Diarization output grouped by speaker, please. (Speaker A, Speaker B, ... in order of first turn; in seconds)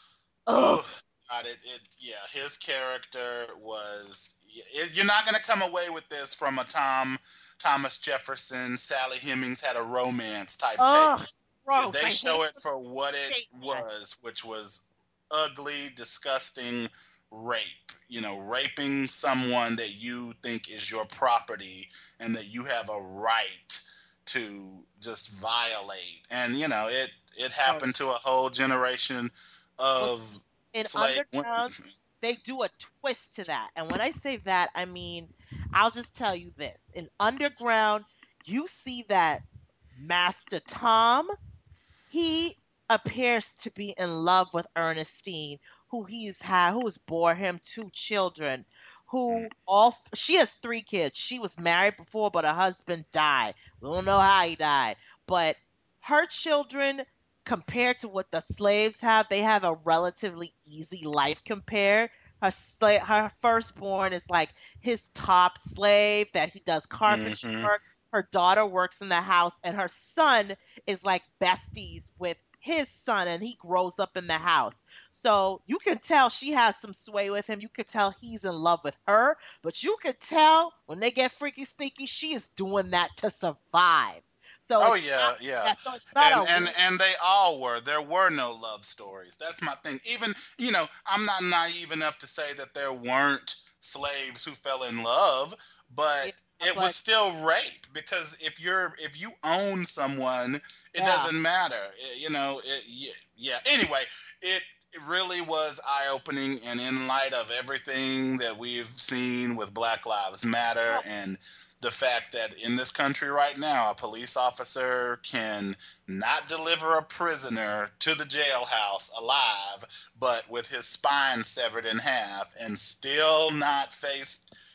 Speaker A: 0.5-0.8, 10.8-12.5, 13.3-13.8, 30.7-39.4, 39.9-41.3, 42.1-86.7, 96.2-96.9, 101.0-101.3
Speaker B: 0.5-11.1, 11.7-32.0, 67.1-67.7, 84.8-124.4